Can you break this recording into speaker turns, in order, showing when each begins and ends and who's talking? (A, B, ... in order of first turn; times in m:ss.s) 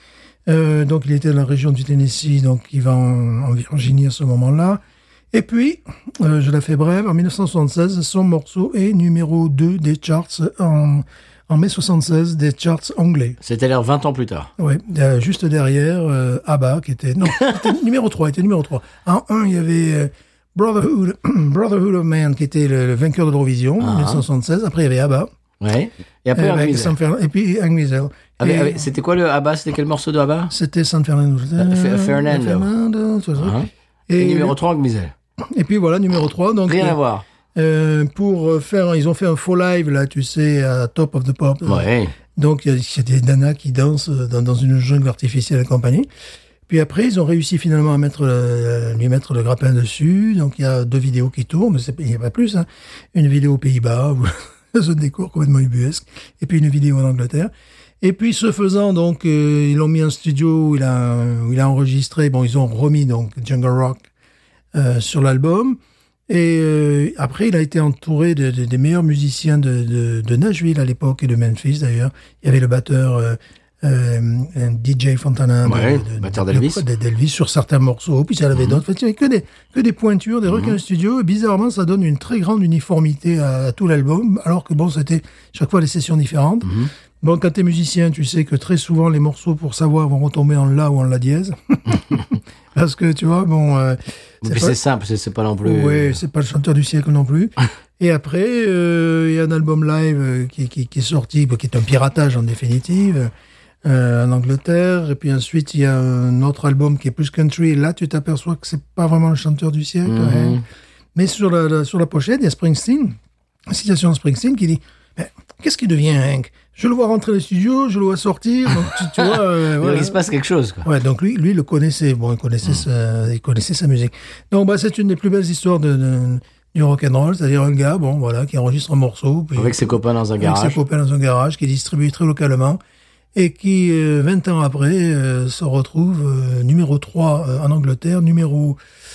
0:00.5-0:04.8 A
0:05.3-0:13.4 A
0:13.4-0:14.5 B
0:14.6-0:25.3 A
0:17.3-0:17.6 B
0:23.8-0:24.2 B
0:25.6-0:27.0 B
0:26.3-0:28.9 A
0:28.4-0:30.5 B
0:30.5-0:34.6 A
0:31.6-0:32.7 B
0:33.4-0:35.1 B
0:35.5-0:37.0 A
0:36.7-0:37.2 B
0:37.5-0:46.1 A
0:41.6-0:42.1 B
0:46.7-1:04.1 A
1:04.7-1:34.8 A
1:15.6-1:16.8 B
1:18.6-1:18.8 B
1:20.5-1:20.8 B
1:26.6-1:26.9 B
1:34.4-1:36.2 B
1:35.6-1:43.3 A
1:43.8-1:50.6 A
1:50.0-1:50.6 B
1:51.1-2:00.2 A
1:59.2-2:00.9 B
2:00.8-2:12.8 A
2:09.6-2:10.8 B
2:13.3-2:18.8 A